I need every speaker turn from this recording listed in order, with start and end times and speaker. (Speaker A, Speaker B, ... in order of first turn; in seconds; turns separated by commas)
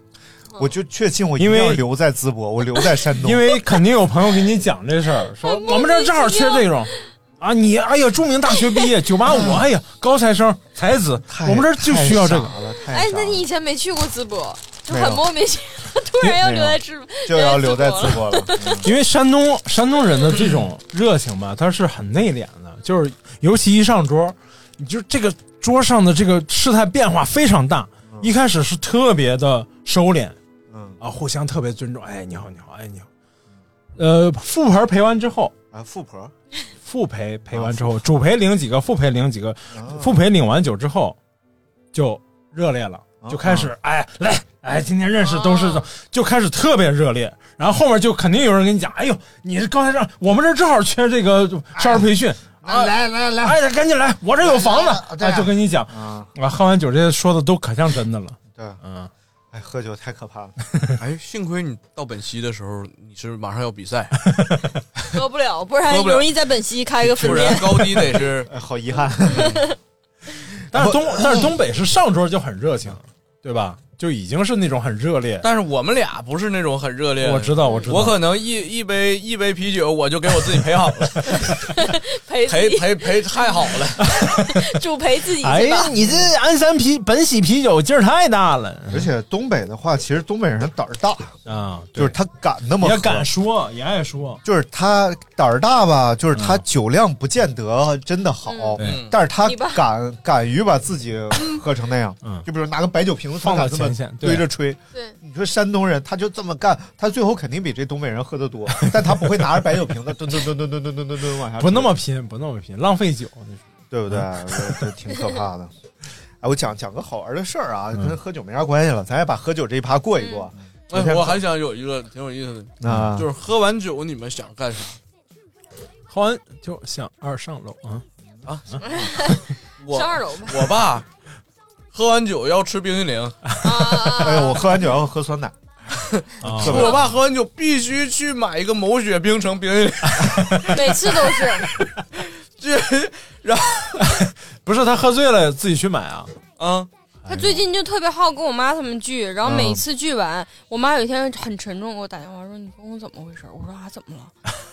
Speaker A: 0.6-3.6, Speaker B: 1.4-1.8, Speaker B: 3.2-12.6, Speaker C: 5.4-6.9, Speaker A: 9.2-9.6, Speaker A: 11.3-13.5, Speaker C: 12.9-18.8, Speaker A: 14.9-15.3, Speaker A: 16.4-18.9, Speaker B: 18.8-30.4, Speaker A: 30.7-31.0, Speaker B: 31.0-33.1, Speaker B: 34.0-35.5, Speaker A: 35.7-36.3, Speaker B: 36.8-41.2, Speaker A: 37.5-38.2, Speaker A: 39.7-40.2, Speaker B: 41.9-59.1, Speaker A: 43.2-43.7, Speaker C: 45.2-45.8, Speaker A: 51.7-52.1, Speaker A: 52.6-53.6, Speaker A: 54.4-56.3, Speaker A: 58.5-58.8, Speaker A: 59.5-60.5, Speaker D: 61.0-64.2, Speaker B: 64.3-64.7, Speaker C: 65.1-68.0, Speaker D: 65.8-66.3, Speaker D: 67.0-68.5, Speaker A: 67.5-69.7, Speaker C: 69.4-69.7, Speaker A: 70.7-71.5, Speaker B: 70.7-75.5, Speaker D: 75.4-81.6, Speaker B: 77.2-78.2, Speaker C: 81.5-83.7, Speaker D: 82.5-84.1, Speaker B: 84.2-84.5, Speaker C: 84.2-85.9, Speaker B: 85.4-89.1, Speaker A: 88.9-91.3, Speaker B: 91.5-92.2, Speaker A: 92.0-93.3, Speaker B: 92.8-94.4, Speaker A: 94.4-112.0, Speaker B: 96.3-96.6, Speaker C: 98.5-98.8, Speaker D: 98.8-99.2, Speaker C: 99.4-99.8, Speaker D: 101.4-101.6, Speaker B: 103.4-104.5, Speaker B: 108.8-109.4, Speaker B: 111.6-114.9, Speaker A: 113.9-115.7, Speaker A: 116.4-121.4, Speaker C: 120.2-120.5, Speaker D: 120.9-125.0, Speaker A: 122.8-123.3, Speaker B: 122.9-123.1, Speaker B: 126.1-128.0, Speaker D: 128.5-129.1, Speaker C: 128.8-130.7, Speaker D: 129.8-131.1, Speaker D: 131.9-133.6, Speaker C: 133.6-134.7, Speaker A: 134.2-135.6, Speaker D: 136.2-141.4, Speaker A: 136.4-137.1, Speaker B: 136.4-136.8, Speaker B: 140.2-140.7, Speaker C: 140.7-141.7, Speaker D: 142.2-144.1, Speaker B: 144.0-146.3, Speaker D: 146.6-146.9, Speaker B: 147.2-147.6, Speaker C: 147.3-154.3, Speaker A: 149.4-149.8